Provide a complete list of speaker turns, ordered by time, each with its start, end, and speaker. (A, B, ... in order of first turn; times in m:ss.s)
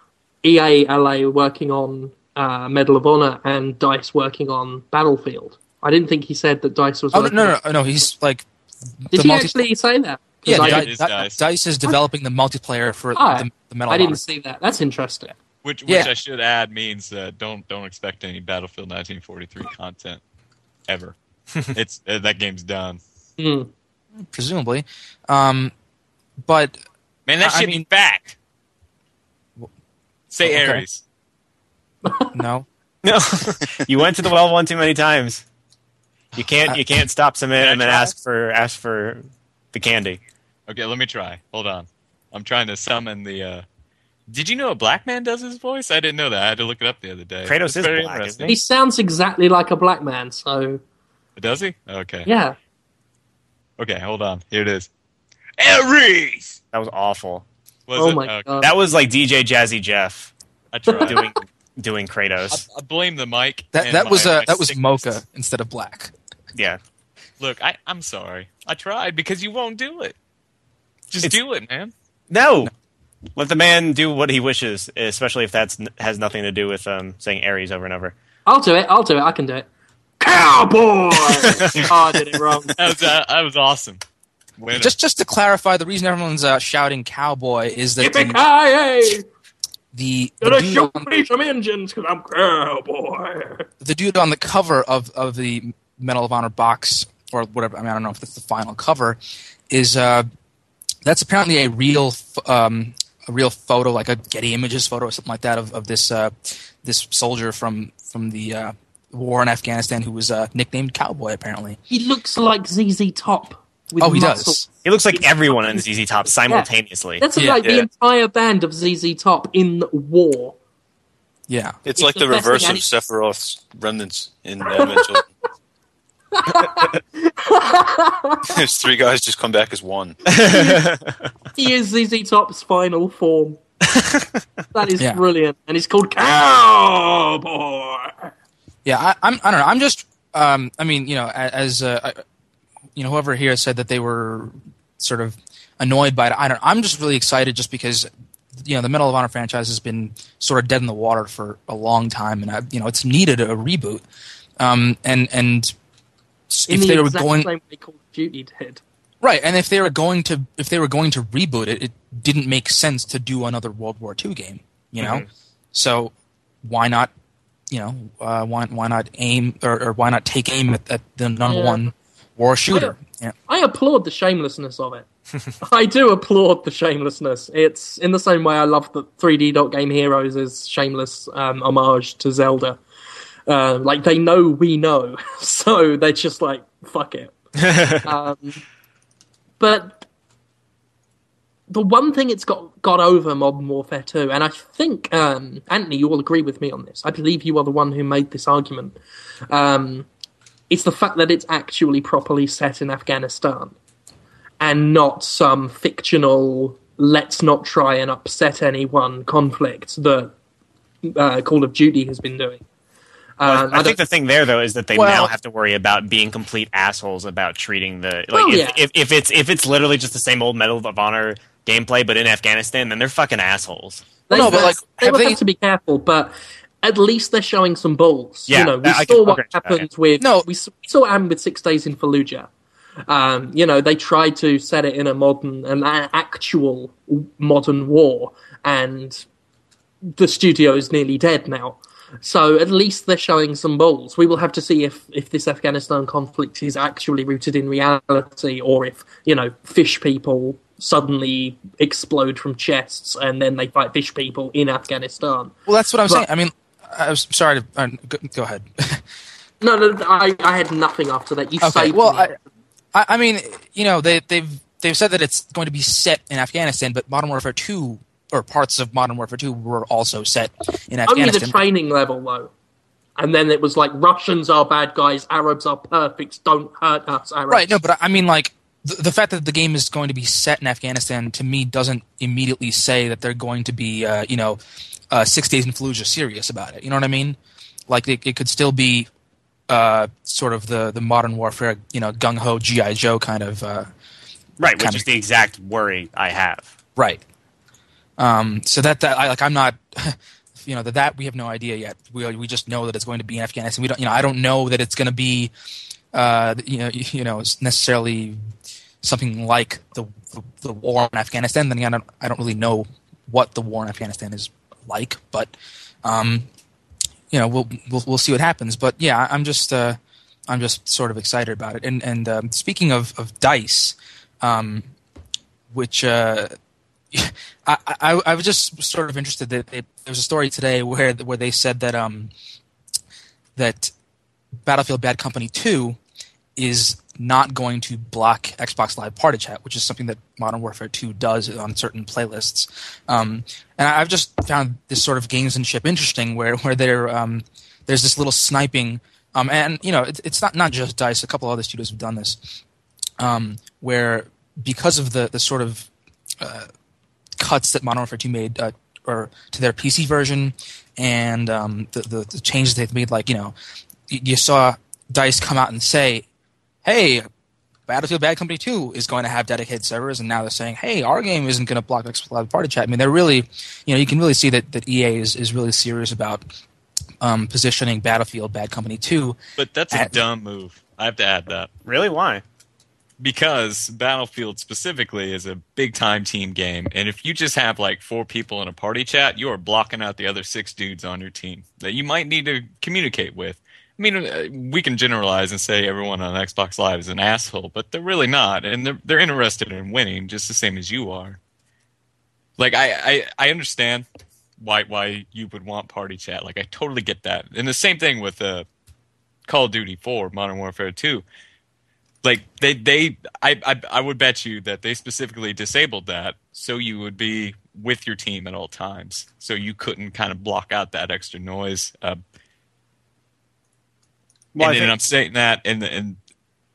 0:00.4-0:07.6 A
0:07.1-0:08.5 B
0:09.0-0:09.6 B
0:09.1-0:10.9 A
0:10.4-0:14.2 B
0:10.5-0:11.4 C
0:13.2-0:15.4 A
0:15.6-0:20.2 C
0:15.9-0:16.1 B
0:20.9-0:21.2 C
0:21.7-0:23.0 C
0:23.4-0:23.7 A
0:24.2-0:25.7 B
0:26.4-0:26.8 B
0:27.3-0:28.4 C
0:27.4-0:27.9 B
0:30.3-0:31.0 C
0:30.4-0:30.8 B
0:32.0-0:32.4 A
0:32.3-0:32.7 B
0:33.0-0:35.4 D
0:36.4-0:40.2 D
0:37.6-0:38.2 C
0:40.7-0:43.6 C
0:44.3-0:48.6 C
0:47.4-0:48.6 D
0:48.4-0:50.8 A
0:51.4-0:52.3 C
0:52.3-0:52.6 A
0:53.8-0:54.9 C
0:55.6-0:56.6 C
0:56.7-0:57.4 D
0:57.9-0:58.5 C
0:58.0-0:58.7 A
0:58.6-1:00.3 D
1:00.7-1:01.2 C
1:00.9-1:01.2 A
1:01.0-1:02.6 D
1:02.5-1:05.1 C
1:03.7-1:06.1 B
1:06.5-1:06.8 D
1:07.4-1:10.2 C
1:11.1-1:11.9 C
1:12.3-1:12.7 D
1:13.4-1:18.1 D
1:18.5-1:19.7 A
1:20.2-1:22.8 A
1:21.2-1:22.0 D
1:22.8-1:24.0 C
1:24.6-1:24.9 C
1:24.7-1:28.4 B
1:28.0-1:29.2 A
1:29.9-1:31.2 B
1:30.4-1:33.7 A
1:33.8-1:40.3 B
1:41.0-1:51.8 B
1:51.9-1:55.8 A
1:54.0-1:54.6 B
1:54.8-1:57.3 D
1:57.2-2:00.6 A
1:57.4-1:57.6 B
1:57.6-1:57.9 E
2:01.5-2:01.8 B
2:01.8-2:05.2 E
2:02.0-2:02.9 A
2:04.6-2:05.2 A
2:06.3-2:08.6 A
2:08.5-2:10.2 E
2:10.3-2:11.2 D
2:10.5-2:10.8 A
2:11.6-2:13.6 A
2:14.0-2:14.2 D
2:14.7-2:18.3 A
2:18.8-2:22.2 B
2:23.0-2:34.0 B
2:34.6-2:35.7 B
2:36.5-2:37.5 B
2:36.7-2:38.8 A
2:39.2-2:46.1 B
2:45.0-2:45.3 D
2:46.6-2:47.1 B
2:47.7-2:53.4 B
2:51.5-2:51.9 A
2:53.5-2:55.1 A
2:55.6-3:02.8 A
3:03.5-3:07.3 A
3:07.6-3:08.1 D
3:08.0-3:08.6 A
3:09.6-3:10.1 A
3:11.7-3:19.0 A
3:19.5-3:20.1 A
3:20.7-3:23.8 A
3:24.6-3:30.3 A
3:31.0-3:32.6 A
3:33.4-3:34.0 A
3:33.4-3:44.6 D
3:34.9-3:35.3 B
3:38.3-3:38.8 A
3:44.3-3:52.5 A
3:44.3-3:45.4 B
3:48.5-3:49.9 D
3:50.2-3:50.5 B
3:53.1-3:59.2 A
4:00.0-4:15.5 A
4:15.7-4:19.0 B
4:19.6-4:22.4 A
4:21.6-4:22.4 B
4:22.9-4:31.6 B
4:31.1-4:32.5 A
4:33.2-4:37.8 A
4:37.5-4:44.6 B
4:45.1-4:47.4 B
4:47.9-4:49.1 B
4:49.7-4:53.9 B
4:54.6-4:56.7 D
4:54.8-4:55.0 B
4:57.0-4:57.2 B
4:58.2-5:05.5 B
5:06.1-5:08.4 B
5:09.0-5:15.5 B
5:16.0-5:16.5 B
5:17.3-5:24.9 B
5:25.7-5:26.5 B
5:27.1-5:32.3 B
5:33.6-5:33.9 B
5:34.6-5:36.0 B
5:36.6-5:52.6 B
5:53.2-5:55.9 B
5:56.4-5:56.7 B
5:57.4-6:03.5 B
6:04.1-6:06.2 B
6:06.8-6:07.3 B
6:07.9-6:16.4 B
6:17.2-6:19.4 B
6:19.6-6:21.7 C
6:19.9-6:20.2 B
6:21.9-6:22.4 D
6:23.2-6:41.4 C
6:42.6-6:44.1 C
6:44.6-6:48.7 C
6:49.5-6:51.2 C
6:52.2-7:02.2 C
7:04.6-7:05.0 D
7:04.6-7:06.2 C